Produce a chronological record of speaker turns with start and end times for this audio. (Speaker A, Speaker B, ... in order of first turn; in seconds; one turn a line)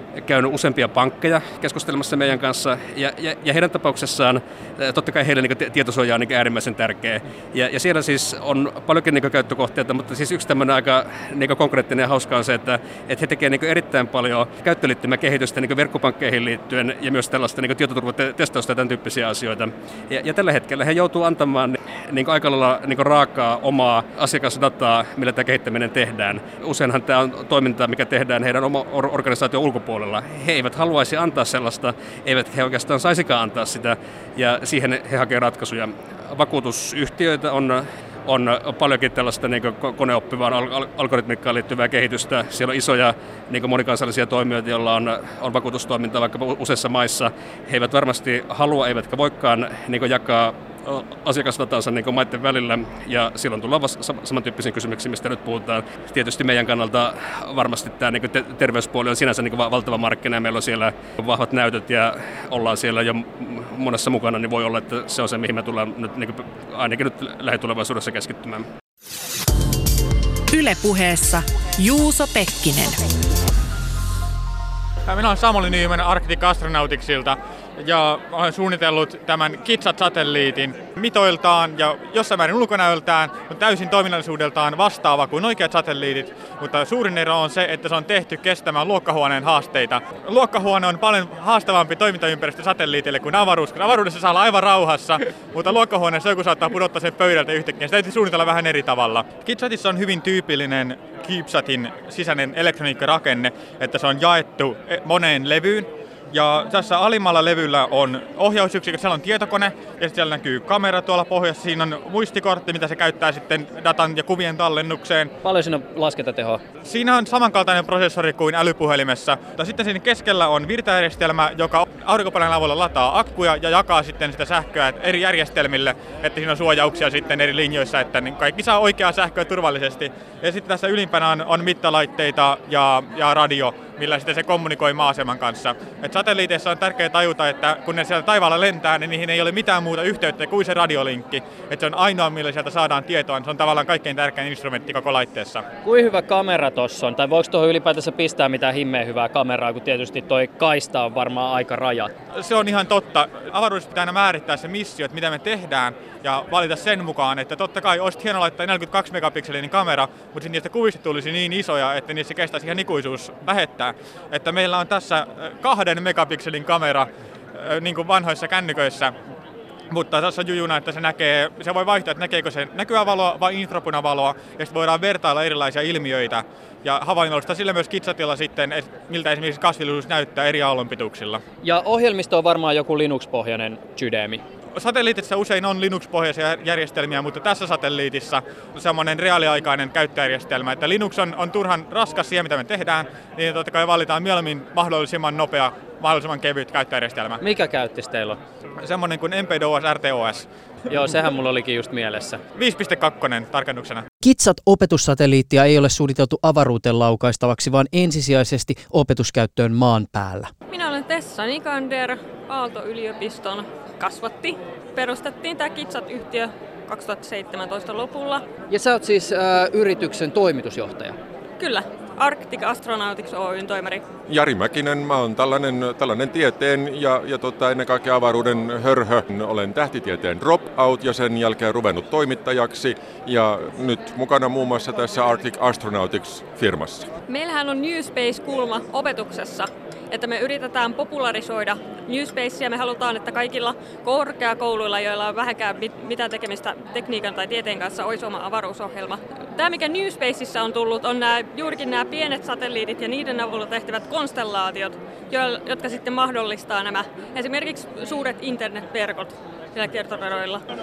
Speaker A: 0.2-68.7
Speaker B: 70.5-73.0
Speaker C: 75.1-115.3
Speaker D: 115.4-116.6
Speaker C: 116.8-145.6
Speaker D: 145.8-152.1
Speaker C: 152.3-169.1
Speaker C: 169.9-181.4
Speaker D: 181.6-184.4
Speaker C: 184.8-197.4
Speaker D: 197.4-198.4
Speaker C: 198.8-200.4
Speaker D: 200.9-202.4
Speaker C: 202.6-204.1
Speaker D: 204.2-210.5
Speaker E: 210.7-218.4
Speaker D: 218.7-221.2
Speaker E: 221.6-224.0
Speaker F: 224.3-237.1
Speaker E: 237.3-260.6